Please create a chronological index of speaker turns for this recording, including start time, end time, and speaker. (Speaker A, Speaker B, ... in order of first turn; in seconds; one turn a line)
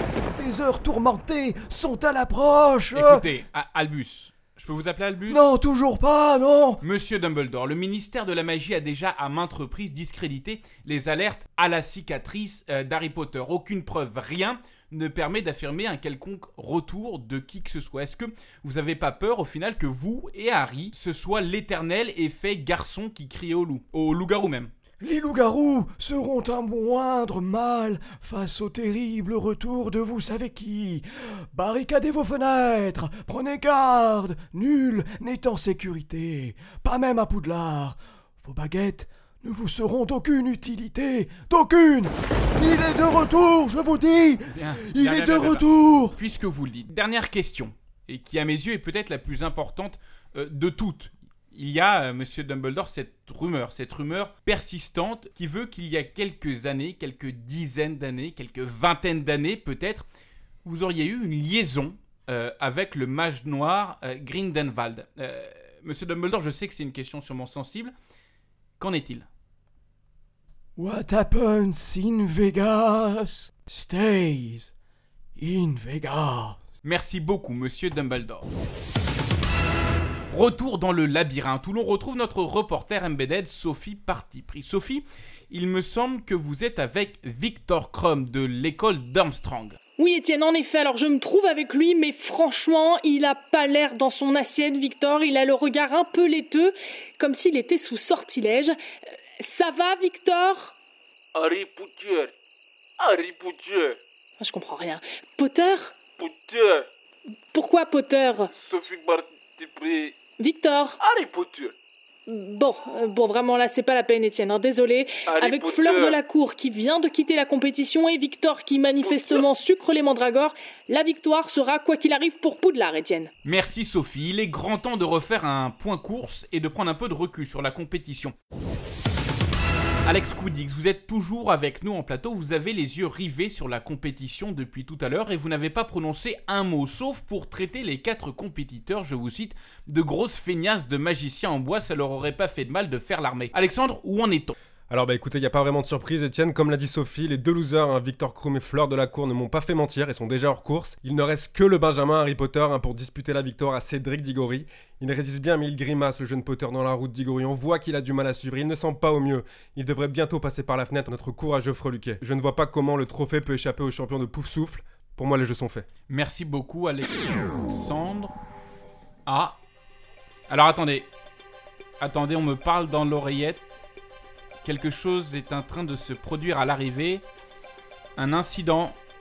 Speaker A: 0.3-3.2
Speaker B: 2.9-5.5
Speaker A: 5.3-6.8
Speaker B: 6.8-24.7
Speaker A: 25.0-46.2
Speaker B: 44.5-60.0
Speaker B: 60.6-67.9
Speaker B: 68.8-69.3
Speaker A: 70.8-74.7
Speaker A: 75.4-76.6
Speaker B: 76.8-78.5
Speaker B: 80.3-89.8
Speaker C: 90.0-98.8
Speaker C: 99.4-100.7
Speaker D: 101.3-102.3
Speaker D: 103.0-104.0
Speaker C: 104.4-106.0
Speaker D: 106.2-106.9
Speaker C: 107.5-108.5
Speaker D: 108.5-110.2
Speaker C: 110.4-111.0
Speaker D: 111.0-111.7
Speaker C: 112.3-123.3
Speaker D: 115.3-116.2
Speaker D: 119.0-119.5
Speaker B: 123.5-128.3
Speaker B: 130.1-144.6
Speaker E: 144.9-165.9
Speaker B: 166.1-168.3
Speaker B: 169.3-169.6
Speaker B: 170.5-171.1
Speaker B: 172.0-173.6
Speaker B: 174.6-177.2
Speaker B: 178.2-179.0